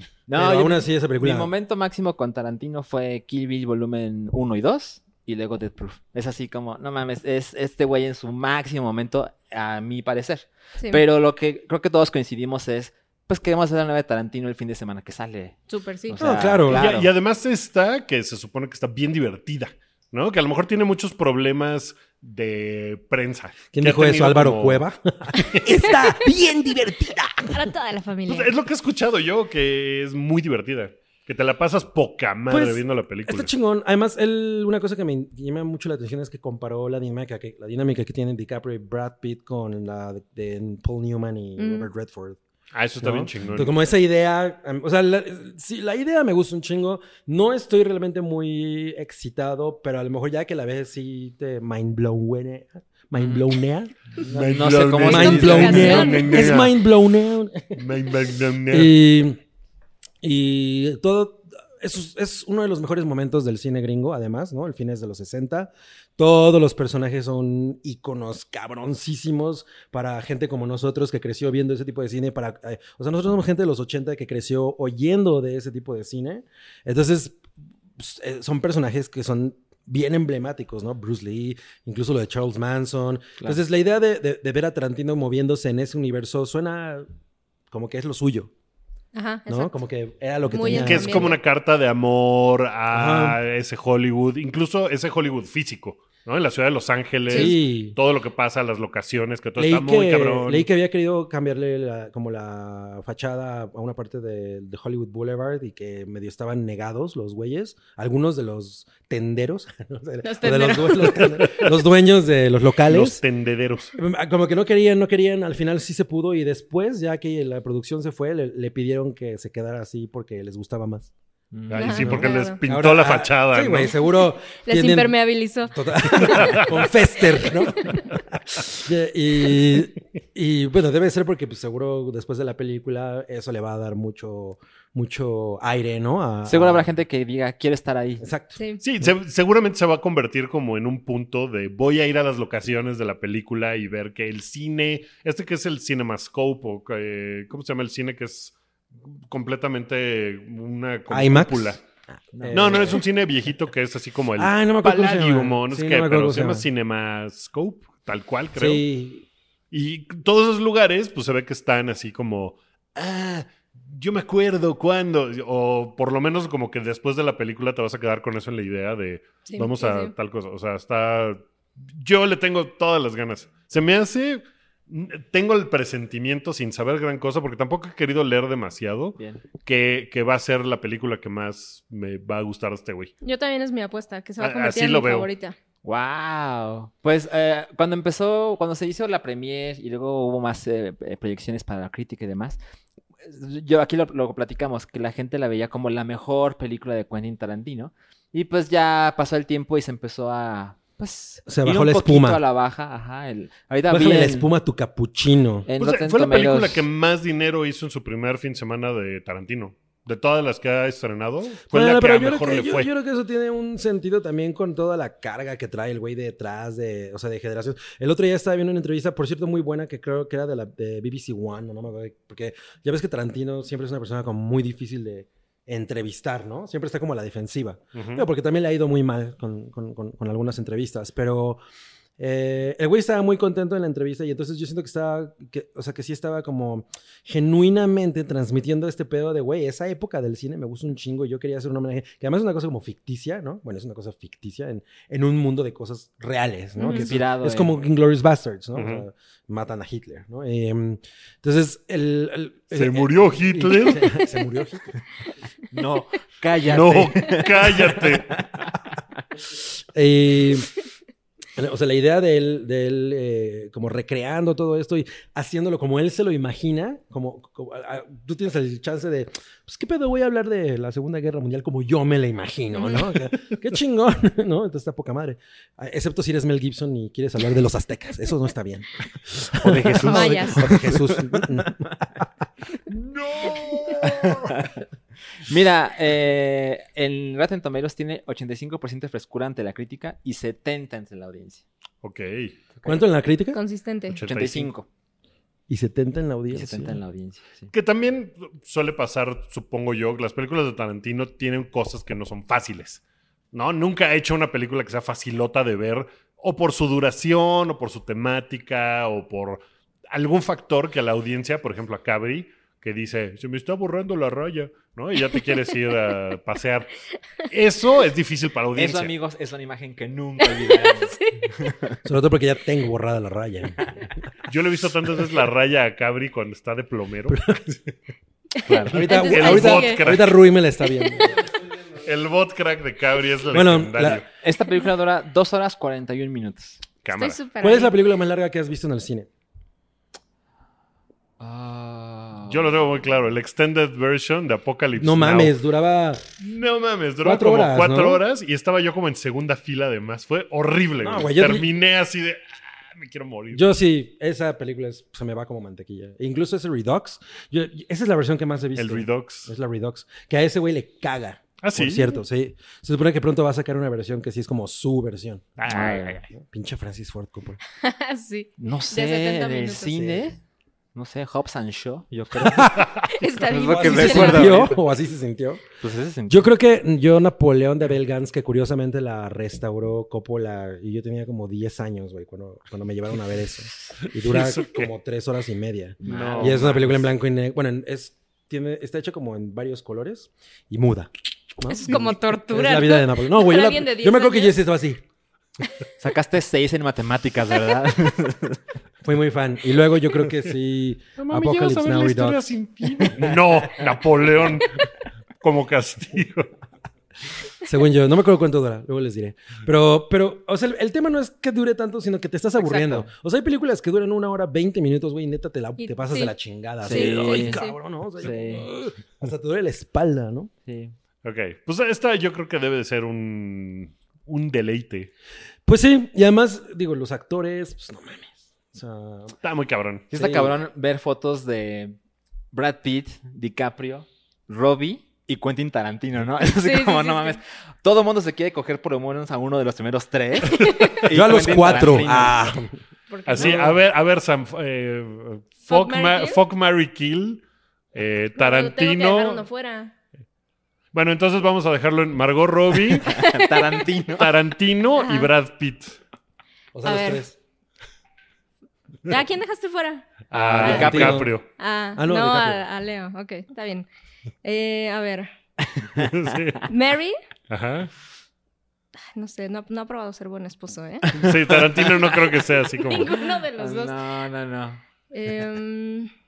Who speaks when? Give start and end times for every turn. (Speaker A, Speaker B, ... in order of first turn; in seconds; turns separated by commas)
Speaker A: 0.3-17.1, Speaker B: 0.3-1.5, Speaker C: 10.8-11.0, Speaker C: 15.7-16.4, Speaker B: 16.2-16.9, Speaker D: 16.7-24.8, Speaker B: 23.7-27.6, Speaker D: 25.4-25.9, Speaker C: 27.5-28.5, Speaker D: 28.3-33.5, Speaker B: 32.5-42.4, Speaker C: 41.6-41.9, Speaker D: 42.7-43.7, Speaker B: 43.0-57.8, Speaker A: 53.2-53.5, Speaker D: 54.2-56.8, Speaker A: 54.2-56.1, Speaker C: 55.1-56.5, Speaker D: 57.8-58.9, Speaker B: 58.7-59.4, Speaker B: 60.2-77.4, Speaker B: 78.0-87.0, Speaker B: 87.7-88.5, Speaker C: 89.1-89.8, Speaker B: 89.5-91.3, Speaker C: 90.5-91.4, Speaker D: 90.7-100.7, Speaker B: 92.9-93.4, Speaker B: 97.3-98.0, Speaker B: 99.6-113.2, Speaker C: 110.2-111.4, Speaker D: 112.8-113.9, Speaker B: 114.0-121.1, Speaker A: 121.5-122.2, Speaker D: 121.7-123.9, Speaker C: 121.7-122.6, Speaker B: 122.0-136.9, Speaker C: 124.6-126.7, Speaker D: 126.2-126.8, Speaker A: 136.4-138.3, Speaker B: 138.2-138.6, Speaker C: 138.6-138.8, Speaker D: 138.8-148.5, Speaker D: 149.1-151.8, Speaker B: 151.1-151.8, Speaker B: 152.3-153.0, Speaker A: 152.3-152.9, Speaker D: 152.5-158.8, Speaker B: 154.4-156.7, Speaker B: 158.5-159.2, Speaker D: 159.7-183.1, Speaker C: 169.4-170.1, Speaker C: 183.2-185.6, Speaker D: 184.4-185.3, Speaker A: 185.8-192.6, Speaker A: 193.2-204.5, Speaker B: 201.4-202.4, Speaker B: 203.9-205.7, Speaker A: 205.7-206.8, Speaker D: 205.8-212.9, Speaker B: 211.7-231.6, Speaker D: 227.9-228.2, Speaker B: 232.2-255.0, Speaker C: 246.8-247.1, Speaker A: 246.9-247.7, Speaker D: 248.7-249.0, Speaker D: 252.7-254.1, Speaker A: 255.7-258.7, Speaker D: 256.6-258.4, Speaker B: 259.5-260.7, Speaker B: 261.6-282.2, Speaker C: 272.7-273.1, Speaker A: 279.6-281.6, Speaker C: 280.0-280.6, Speaker D: 282.9-284.5, Speaker A: 284.0-284.7, Speaker A: 285.3-291.6, Speaker D: 292.0-292.5, Speaker B: 292.8-293.6, Speaker C: 293.5-294.2, Speaker D: 294.1-294.7, Speaker A: 294.2-294.9, Speaker B: 295.7-297.0, Speaker A: 296.5-297.7, Speaker D: 297.7-303.0, Speaker D: 303.5-316.9, Speaker D: 317.4-319.1, Speaker A: 318.8-321.9, Speaker C: 320.8-321.3, Speaker B: 322.0-323.9, Speaker D: 324.5-327.6, Speaker B: 327.3-327.6, Speaker C: 328.6-330.0, Speaker A: 328.6-329.0, Speaker B: 328.9-331.4, Speaker D: 328.9-330.4, Speaker C: 330.9-331.2, Speaker D: 332.0-334.2, Speaker B: 333.5-334.2, Speaker A: 334.4-336.8, Speaker D: 337.0-337.4, Speaker C: 337.1-337.9, Speaker B: 337.6-339.3, Speaker A: 341.4-342.6, Speaker D: 342.5-345.5, Speaker B: 345.0-346.2, Speaker D: 346.4-353.6, Speaker B: 347.2-348.2, Speaker B: 351.0-351.7, Speaker B: 353.5-365.7, Speaker D: 358.8-359.5, Speaker D: 361.6-362.2, Speaker D: 365.6-366.2, Speaker A: 365.7-366.2, Speaker B: 366.3-367.6, Speaker C: 367.8-369.9, Speaker A: 368.6-370.4, Speaker B: 369.9-370.3, Speaker A: 370.9-372.9, Speaker B: 372.4-372.9, Speaker C: 373.1-374.7, Speaker A: 373.5-374.8, Speaker B: 373.5-375.6, Speaker A: 375.8-376.5, Speaker B: 376.3-395.0, Speaker D: 384.1-384.9, Speaker A: 386.0-387.0, Speaker D: 386.0-387.0, Speaker C: 391.7-394.6, Speaker A: 396.0-398.6, Speaker B: 399.0-402.4, Speaker D: 401.2-404.9, Speaker B: 403.0-403.4, Speaker D: 405.4-406.5, Speaker B: 407.6-420.5, Speaker A: 412.6-413.1, Speaker C: 415.8-416.3, Speaker A: 416.8-417.6, Speaker C: 416.9-417.8, Speaker A: 418.2-418.7, Speaker A: 420.6-420.9, Speaker D: 421.2-425.1, Speaker B: 425.6-429.4, Speaker D: 429.4-430.1, Speaker A: 430.1-431.9, Speaker B: 430.1-430.6, Speaker A: 432.5-442.4, Speaker C: 436.6-437.4, Speaker C: 440.5-441.0, Speaker B: 441.1-442.7, Speaker C: 443.1-443.7, Speaker D: 443.2-447.4, Speaker B: 443.4-443.7, Speaker C: 445.7-446.4, Speaker D: 447.9-449.4, Speaker C: 448.4-449.9, Speaker D: 450.9-453.2, Speaker A: 453.0-454.3, Speaker C: 453.1-453.5, Speaker D: 454.1-456.0, Speaker C: 455.0-455.3, Speaker B: 456.7-457.4, Speaker C: 456.8-457.2, Speaker C: 459.1-460.9, Speaker D: 460.3-461.4, Speaker A: 460.3-461.3, Speaker B: 460.6-461.4, Speaker C: 461.6-463.9, Speaker B: 461.9-462.6, Speaker C: 464.4-465.3, Speaker D: 466.0-466.7, Speaker C: 466.7-467.1, Speaker D: 467.5-467.9, Speaker C: 469.1-471.1, Speaker A: 471.1-472.4, Speaker D: 471.1-473.2, Speaker C: 472.9-473.9, Speaker A: 472.9-474.8, Speaker C: 475.1-476.1